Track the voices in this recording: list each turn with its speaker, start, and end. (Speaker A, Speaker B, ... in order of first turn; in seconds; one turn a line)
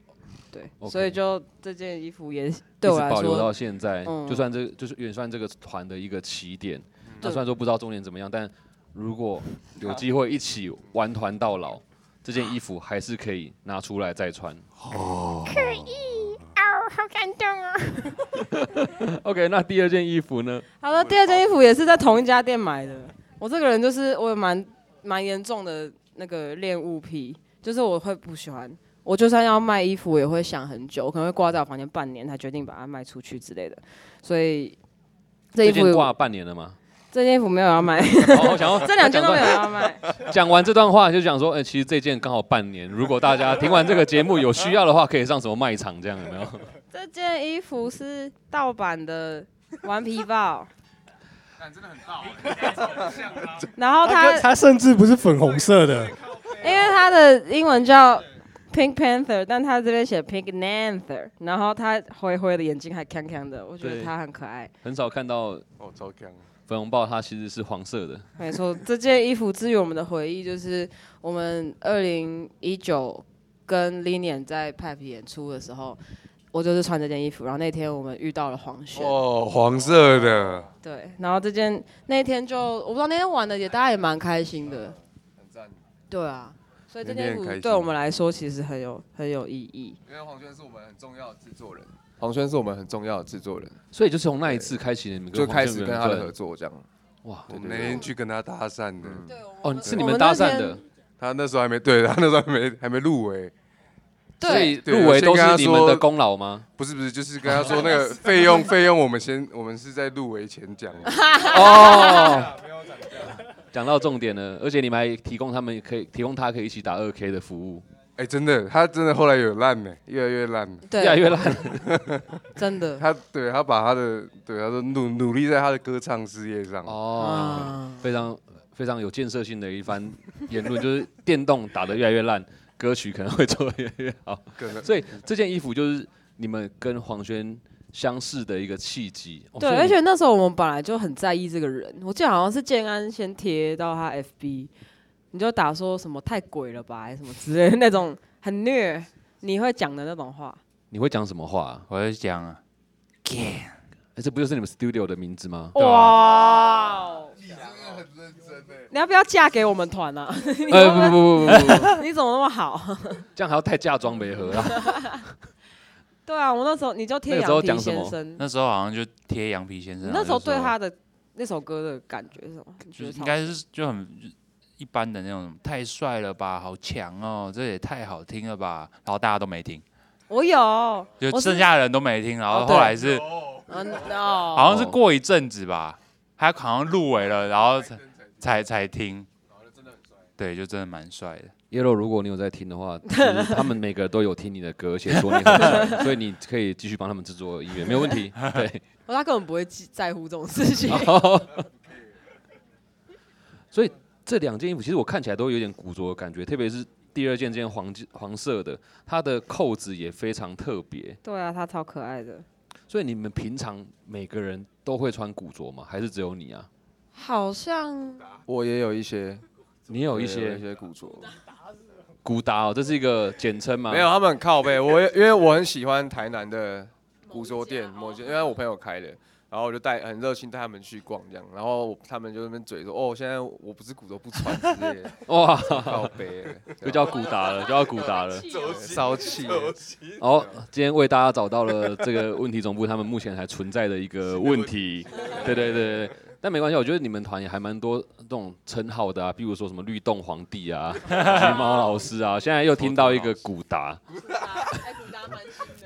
Speaker A: 0.5-3.5
Speaker B: 0.8-1.2
Speaker B: 2.8-14.7
Speaker A: 4.0-4.5
Speaker C: 14.8-15.9
Speaker A: 15.5-18.3
Speaker B: 18.4-20.7
Speaker A: 20.8-34.8
Speaker A: 35.5-36.1
Speaker B: 35.6-36.8
Speaker A: 37.1-40.0
Speaker B: 38.2-46.7
Speaker A: 46.9-50.7
Speaker A: 53.7-54.5
Speaker D: 54.0-56.2
Speaker A: 56.5-64.7
Speaker B: 63.8-64.1
Speaker B: 64.8-65.7
Speaker C: 65.8-66.5
Speaker B: 66.7-68.3
Speaker A: 68.4-76.0
Speaker A: 76.5-79.2
Speaker C: 79.0-80.7
Speaker A: 80.8-85.0
Speaker E: 85.4-85.8
Speaker A: 86.1-90.0
Speaker C: 87.0-87.9
Speaker E: 90.1-93.8
Speaker B: 93.9-96.3
Speaker E: 95.3-96.9
Speaker B: 97.2-98.1
Speaker C: 97.5-99.3
Speaker E: 99.0-99.3
Speaker A: 99.3-100.8
Speaker B: 99.6-100.8
Speaker C: 101.2-103.5
Speaker A: 104.4-104.8
Speaker B: 104.4-106.7
Speaker C: 104.5-106.1
Speaker C: 106.8-111.2
Speaker A: 111.1-112.5
Speaker B: 111.4-112.6
Speaker B: 113.5-117.8
Speaker C: 118.2-120.9
Speaker A: 120.9-121.5
Speaker B: 121.0-121.9
Speaker C: 121.7-122.4
Speaker A: 122.6-123.0
Speaker C: 123.0-127.0
Speaker B: 126.8-140.0
Speaker A: 127.2-128.0
Speaker C: 134.6-134.9
Speaker A: 139.6-144.7
Speaker A: 145.3-150.6
Speaker B: 150.9-151.9
Speaker F: 151.9-152.6
Speaker F: 153.2-153.8
Speaker B: 154.2-155.8
Speaker A: 155.8-157.4
Speaker F: 155.8-156.2
Speaker A: 158.9-163.3
Speaker B: 160.7-162.0
Speaker F: 161.6-161.8
Speaker B: 163.3-165.2
Speaker A: 164.7-165.2
Speaker A: 166.3-168.4
Speaker B: 167.3-168.2
Speaker F: 168.4-170.7
Speaker A: 170.0-173.5
Speaker F: 173.0-179.8
Speaker A: 180.3-181.7
Speaker F: 181.2-183.6
Speaker A: 182.5-183.0
Speaker A: 183.6-184.7
Speaker F: 184.5-189.3
Speaker B: 184.7-185.0
Speaker F: 190.4-191.5
Speaker B: 191.7-198.8
Speaker A: 193.1-193.7
Speaker F: 195.3-195.8
Speaker A: 195.6-196.0
Speaker A: 199.1-201.2
Speaker B: 200.9-201.7
Speaker B: 203.7-211.2
Speaker A: 211.2-212.4
Speaker B: 212.9-216.7
Speaker A: 217.2-218.4
Speaker E: 218.5-219.4
Speaker B: 219.9-220.6
Speaker E: 220.1-221.3
Speaker B: 222.2-224.1
Speaker E: 223.9-237.3
Speaker B: 235.2-236.2
Speaker B: 236.8-238.6
Speaker E: 238.5-239.8
Speaker C: 239.7-240.2
Speaker B: 240.2-254.9
Speaker E: 252.8-253.3